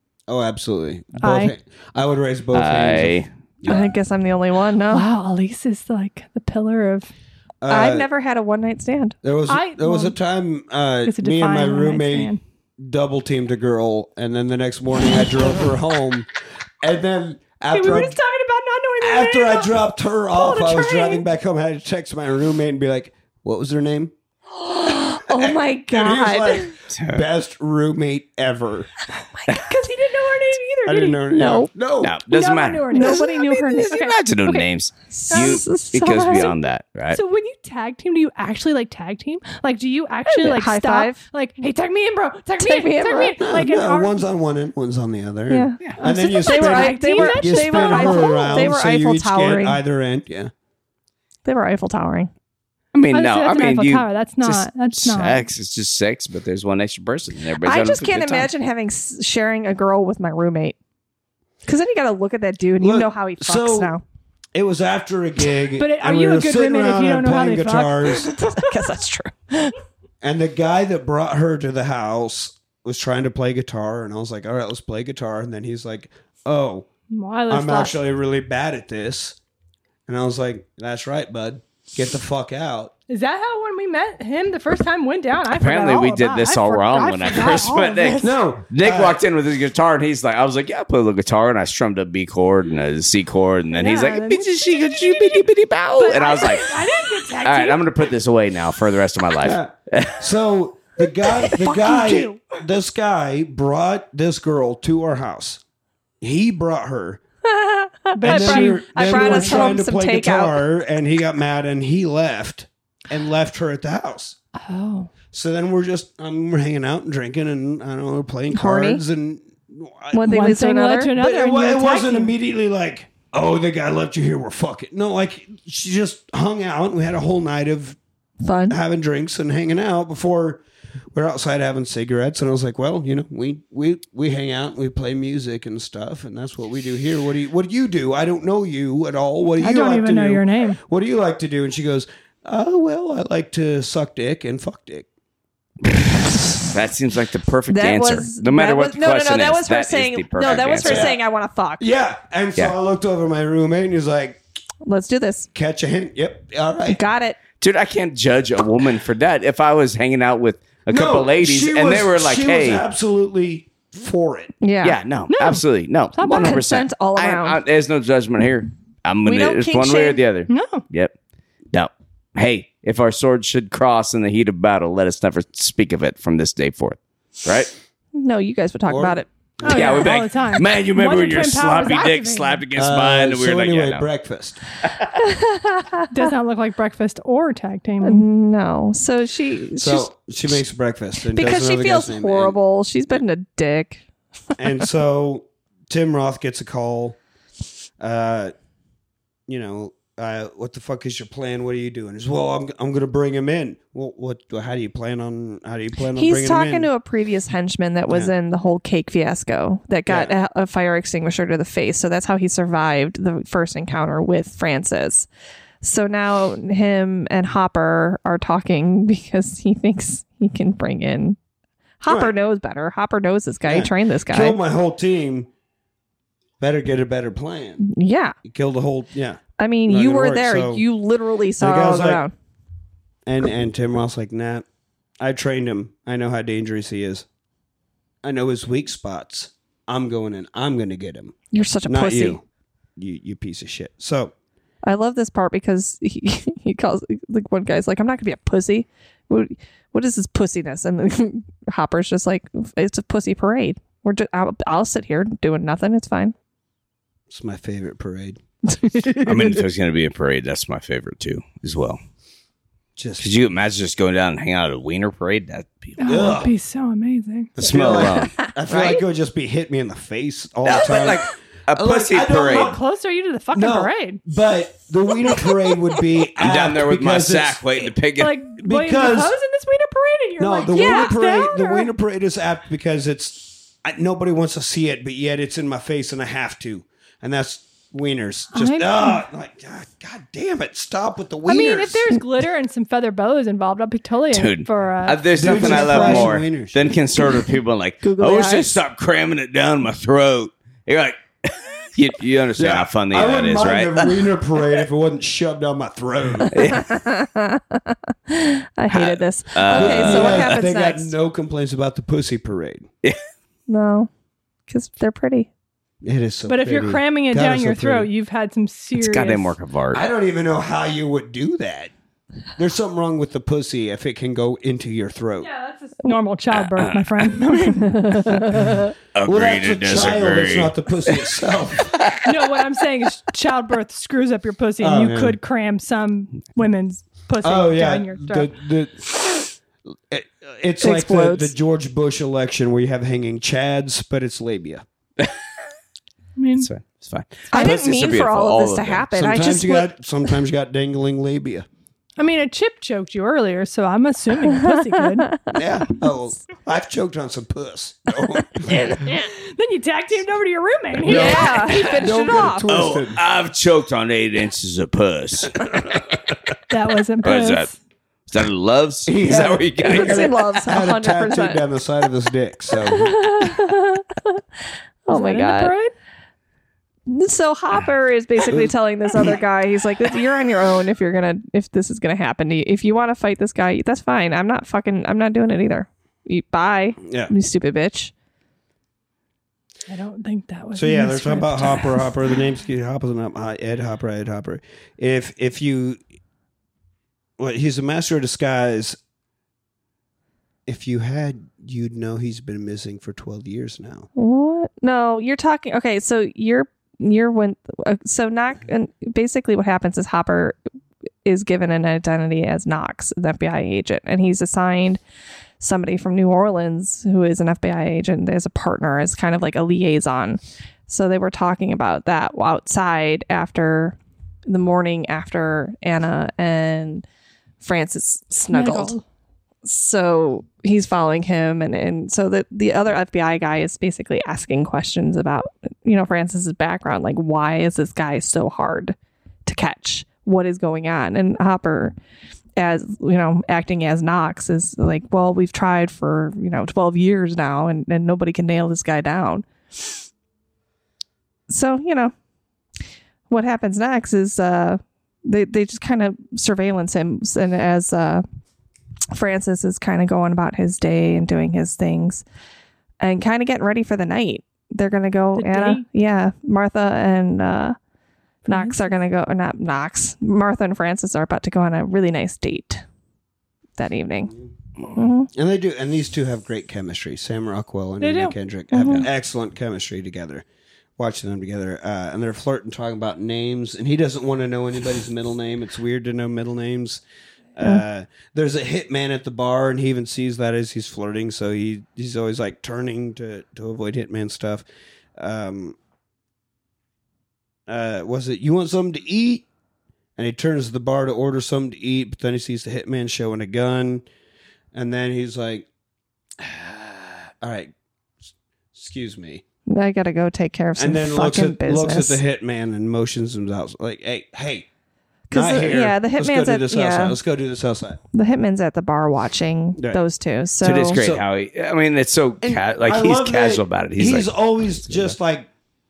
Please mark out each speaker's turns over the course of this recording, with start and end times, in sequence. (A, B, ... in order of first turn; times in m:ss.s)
0:00.3-0:03.8 A
0:01.2-0:01.5 B
0:02.5-0:03.3 C
0:03.7-0:05.1 D
0:04.9-0:07.1 B
0:07.6-0:08.1 A
0:07.7-0:09.2 D
0:09.2-0:16.3 A
0:09.5-0:10.2 B
0:11.0-0:12.4 B
0:16.8-0:18.2 A
0:17.7-0:21.2 B
0:19.0-0:24.1 A
0:24.6-0:26.7 D
0:24.8-0:28.9 A
0:26.9-0:27.2 C
0:29.5-0:31.2 B
0:30.8-0:32.2 A
0:31.3-0:31.7 D
0:32.0-0:37.2 C
0:32.3-0:34.6 B
0:32.9-0:33.9 D
0:35.1-0:36.5 D
0:35.3-0:36.5 B
0:37.1-0:44.2 B
0:40.2-0:41.2 D
0:42.6-0:43.4 D
0:43.4-0:50.5 A
0:45.5-0:49.8 D
0:46.0-0:48.7 B
0:51.4-0:52.3 D
0:52.9-0:58.5 C
0:53.0-0:55.5 B
0:57.6-1:00.8 D
1:01.6-1:04.0 D
1:02.8-1:03.9 A
1:04.5-1:08.3 A
1:05.8-1:08.6 B
1:08.4-1:09.8 D
1:10.2-1:16.9 A
1:17.1-1:18.0 B
1:17.5-1:19.4 A
1:20.1-1:22.9 A
1:23.1-1:28.4 B
1:25.5-1:40.3 C
1:28.2-1:29.2 A
1:33.7-1:35.4 B
1:36.0-1:37.9 B
1:39.4-1:45.6 A
1:41.6-1:42.4 B
1:46.2-1:47.2 A
1:47.5-1:50.6 D
1:48.1-1:49.7 B
1:48.2-1:54.4 A
1:54.6-1:55.1 B
1:55.3-2:00.5 A
1:58.5-1:59.0 D
2:00.1-2:01.1 D
2:00.2-2:02.3 B
2:01.1-2:08.0 A
2:08.4-2:08.8 D
2:08.7-2:10.6 A
2:11.1-2:25.1 A
2:19.6-2:20.8 B
2:25.8-2:31.1 C
2:27.7-2:31.8 D
2:30.8-2:31.2 A
2:31.8-2:34.4 A
2:34.8-2:35.5 D
2:35.5-2:37.0 A
2:36.9-2:37.4 D
2:37.6-2:42.8 C
2:40.9-2:44.5 A
2:44.6-2:45.0 D
2:44.8-2:51.1 C
2:45.3-2:45.6 B
2:46.2-2:46.6 B
2:46.3-2:47.6 D
2:49.2-2:50.2 D
2:50.5-2:50.8 B
2:51.7-2:57.7 C
2:58.1-2:59.3 D
2:58.9-3:00.0 A
2:59.6-3:02.6 B
2:59.6-3:04.0 C
3:02.7-3:04.6 A
3:04.8-3:05.1 C
3:05.2-3:06.1 D
3:06.1-3:08.2 B
3:08.0-3:10.1 D
3:09.8-3:12.6 A
3:11.3-3:14.0 D
3:14.6-3:17.2 A
3:18.0-3:18.5 A
3:19.5-3:26.9 A
3:26.2-3:35.3 D
3:30.1-3:30.3 A
3:35.8-3:41.4 D
3:42.0-3:44.6 D
3:42.0-3:42.3 A
3:43.6-3:45.5 A
3:46.6-3:47.9 A
3:47.8-3:48.3 D
3:48.4-3:50.8 A
3:49.6-3:52.3 D
3:51.6-3:52.2 A
3:53.2-3:54.6 A
3:55.2-3:57.2 A
3:58.2-4:01.4 A
4:01.5-4:02.4 D
4:01.9-4:02.4 A
4:03.0-4:04.3 A
4:04.8-4:16.3 D
4:17.3-4:18.4 A
4:18.7-4:19.4 D
4:19.2-4:22.0 C
4:23.0-4:23.3 A
4:23.2-4:26.2 C
4:26.0-4:28.0 B
4:26.0-4:26.5 A
4:27.6-4:32.8 A
4:27.6-4:28.4 C
4:30.6-4:32.8 C
4:32.4-4:34.2 B
4:33.5-4:37.6 A
4:36.4-4:38.4 C
4:38.2-4:41.9 B
4:38.6-4:39.3 A
4:40.4-4:52.1 A
4:40.7-4:41.1 D
4:48.5-4:49.2 B
4:51.5-4:56.3 B
4:54.3-5:04.3 C
4:55.4-4:57.0 A
4:58.0-4:58.8 D
5:02.6-5:06.6 A
5:06.5-5:06.9 C
5:06.7-5:11.1 D
5:08.9-5:10.6 C
5:09.7-5:12.9 A
5:13.7-5:14.1 D
5:14.7-5:15.5 D
5:16.0-5:18.1 A
5:16.5-5:19.6 B
5:18.9-5:20.0 C
5:19.9-5:21.9 A
5:22.6-5:25.5 A
5:25.4-5:28.4 B
5:26.5-5:27.4 C
5:27.9-5:28.3 D
5:29.1-5:31.4 C
5:29.2-5:32.0 A
5:31.9-5:32.5 C
5:32.2-5:38.5 B
5:34.8-5:35.4 A
5:37.4-5:44.8 A
5:40.8-5:41.5 D
5:46.4-5:46.7 B
5:46.6-5:49.1 C
5:47.5-5:49.9 D
5:49.2-5:51.6 A
5:52.2-5:55.3 B
5:54.6-5:55.4 D
5:55.5-5:58.7 A
5:58.7-6:02.2 B
6:01.0-6:03.2 A
6:01.0-6:02.7 D
6:02.7-6:06.0 C
6:06.7-6:07.7 B
6:07.2-6:07.7 C
6:08.3-6:10.5 C
6:09.0-6:13.1 A
6:09.8-6:11.6 D
6:13.2-6:13.6 B
6:13.2-6:14.4 D
6:15.0-6:15.7 D
6:15.1-6:15.9 B
6:17.1-6:28.1 D
6:18.5-6:19.4 A
6:27.0-6:27.3 A
6:29.9-6:32.1 B
6:30.7-6:36.0 A
6:37.4-6:39.0 A
6:40.6-6:44.1 A
6:44.2-6:50.6 D
6:51.2-6:55.0 D
6:55.6-7:07.0 D
7:07.6-7:09.0 D
7:08.5-7:09.0 B
7:09.6-7:18.9 D
7:19.4-7:21.9 D
7:22.6-7:29.9 D
7:31.5-7:32.1 D
7:33.3-7:38.2 D
7:39.1-7:42.2 D
7:43.0-7:47.8 D
7:45.4-7:45.8 B
7:48.5-7:48.9 B
7:48.5-7:52.8 D
7:53.8-7:54.3 D
7:54.9-7:55.3 D
7:55.3-8:00.4 A
7:58.0-7:58.3 B
7:58.7-7:59.1 D
8:01.0-8:07.0 A
8:07.6-8:14.6 A
8:15.2-8:15.8 A
8:17.7-8:19.4 A
8:20.2-8:24.0 A
8:24.7-8:25.7 A
8:26.4-8:27.7 A
8:28.7-8:29.4 A
8:29.7-8:32.2 D
8:30.8-8:34.7 A
8:35.3-8:37.2 D
8:35.3-8:38.0 A
8:38.1-8:41.0 D
8:40.6-8:45.2 C
8:40.9-8:41.2 A
8:42.4-8:45.5 A